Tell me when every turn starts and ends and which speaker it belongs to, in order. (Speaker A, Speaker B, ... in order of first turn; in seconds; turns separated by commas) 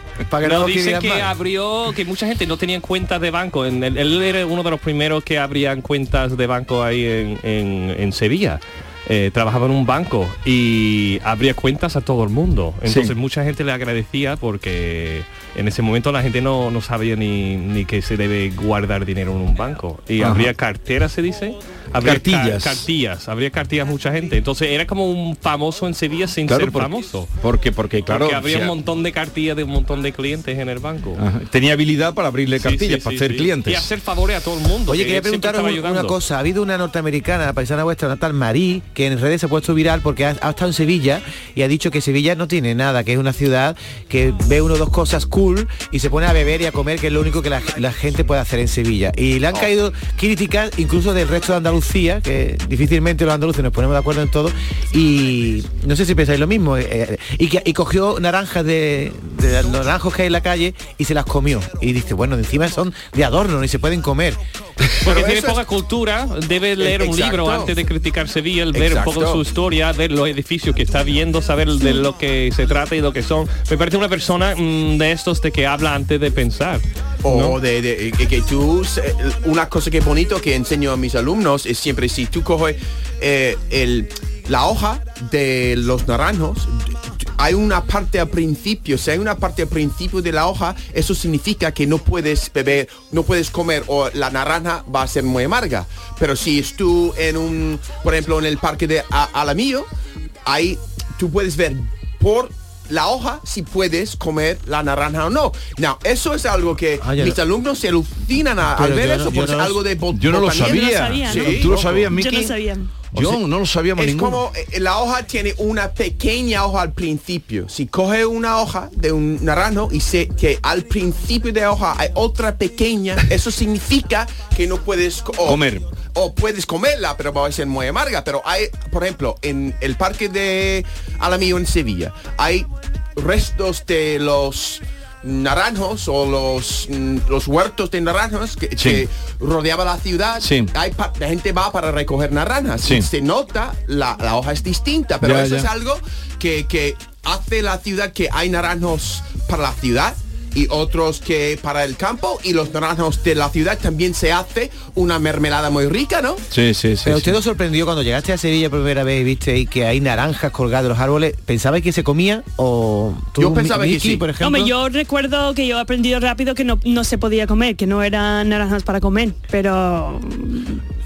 Speaker A: 0.3-1.3, Speaker B: 0.4-27.3, Speaker C: 12.9-13.1, Speaker C: 20.2-20.5, Speaker C: 22.0-22.9, Speaker C: 26.5-28.8, Speaker B: 28.1-31.2, Speaker C: 31.2-33.9, Speaker B: 32.6-36.2, Speaker A: 34.9-64.4, Speaker D: 65.0-65.6, Speaker B: 65.0-77.6, Speaker D: 66.8-67.7, Speaker D: 68.7-69.4, Speaker D: 77.2-99.9, Speaker D: 100.5-111.8, Speaker A: 107.0-107.4, Speaker A: 108.7-109.8, Speaker C: 110.1-112.5, Speaker E: 110.6-112.9, Speaker A: 111.6-112.1, Speaker C: 113.1-114.4, Speaker D: 114.0-156.4, Speaker C: 125.5-125.9, Speaker C: 138.8-139.1, Speaker C: 140.4-140.7, Speaker C: 142.8-143.1, Speaker C: 145.2-145.7, Speaker C: 156.5-157.3, Speaker A: 157.1-164.7, Speaker D: 163.4-164.2, Speaker E: 164.4-170.8